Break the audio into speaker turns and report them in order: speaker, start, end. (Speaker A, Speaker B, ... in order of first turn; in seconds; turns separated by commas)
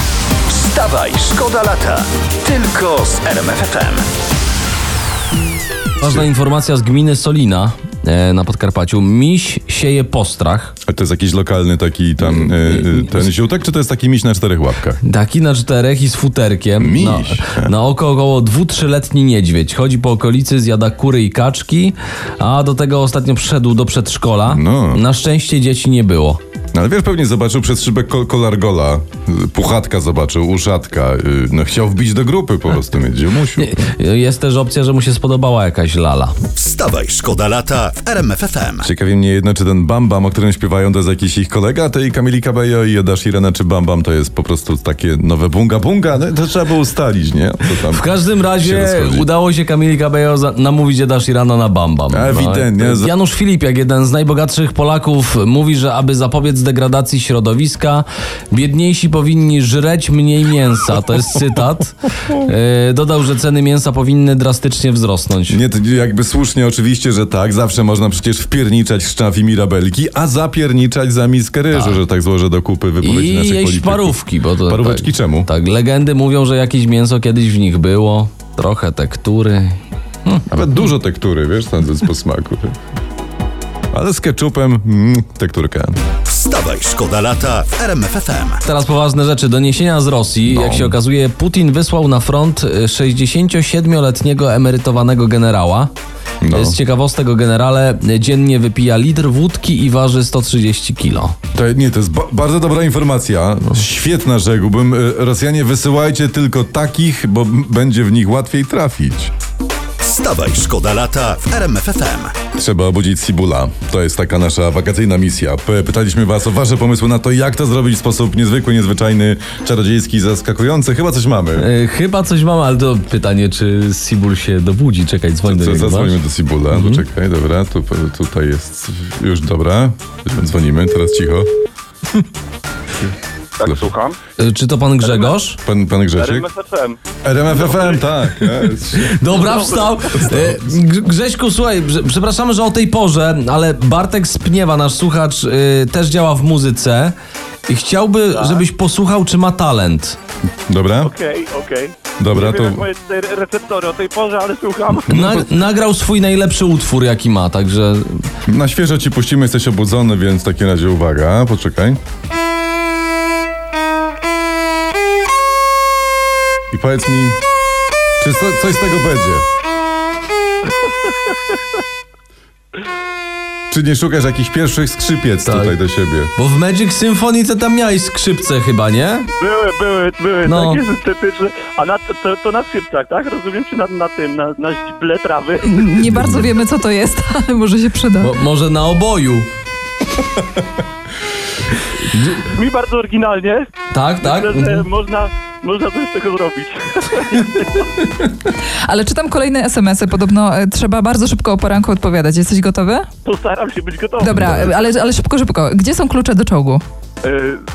Speaker A: 0.5-4.1, Speaker B: 6.0-10.7, Speaker C: 10.9-15.0, Speaker B: 12.2-13.3, Speaker B: 15.0-26.4, Speaker C: 16.8-17.7, Speaker C: 24.5-25.0, Speaker C: 26.7-33.8, Speaker B: 33.5-36.4, Speaker A: 36.5-38.9, Speaker C: 38.8-49.3, Speaker B: 47.7-65.6, Speaker C: 52.1-53.1, Speaker C: 65.5-75.5, Speaker B: 71.7-72.0, Speaker B: 73.0-80.5, Speaker C: 80.5-82.7, Speaker C: 83.9-86.0, Speaker A: 86.3-88.6, Speaker B: 88.6-95.9, Speaker C: 90.5-91.0, Speaker C: 96.4-96.8, Speaker B: 96.5-101.3, Speaker C: 101.5-109.3, Speaker A: 110.0-112.4, Speaker C: 112.5-121.7, Speaker B: 121.6-126.2, Speaker C: 125.4-131.5, Speaker B: 126.7-127.0, Speaker D: 133.6-134.2, Speaker B: 134.4-135.6, Speaker D: 135.0-135.3, Speaker C: 135.6-136.5, Speaker D: 136.2-137.0, Speaker C: 137.2-139.4, Speaker D: 137.5-138.0, Speaker B: 138.9-147.1, Speaker D: 139.3-140.3, Speaker B: 147.7-150.2, Speaker D: 148.3-148.6, Speaker C: 150.7-151.1, Speaker D: 151.0-155.2, Speaker C: 152.2-152.8, Speaker B: 155.1-158.2, Speaker C: 158.4-162.0, Speaker C: 166.7-167.4, Speaker C: 168.2-169.4, Speaker C: 173.7-176.3, Speaker B: 175.4-175.8, Speaker B: 176.3-179.3, Speaker D: 179.4-185.9, Speaker B: 180.4-180.8, Speaker E: 185.7-188.3, Speaker C: 186.1-186.5, Speaker B: 188.2-189.5, Speaker B: 192.0-192.4, Speaker D: 192.4-197.9, Speaker B: 193.9-194.9, Speaker E: 198.8-203.1, Speaker D: 203.2-204.8, Speaker E: 204.2-206.8, Speaker C: 204.2-204.7, Speaker D: 207.2-207.6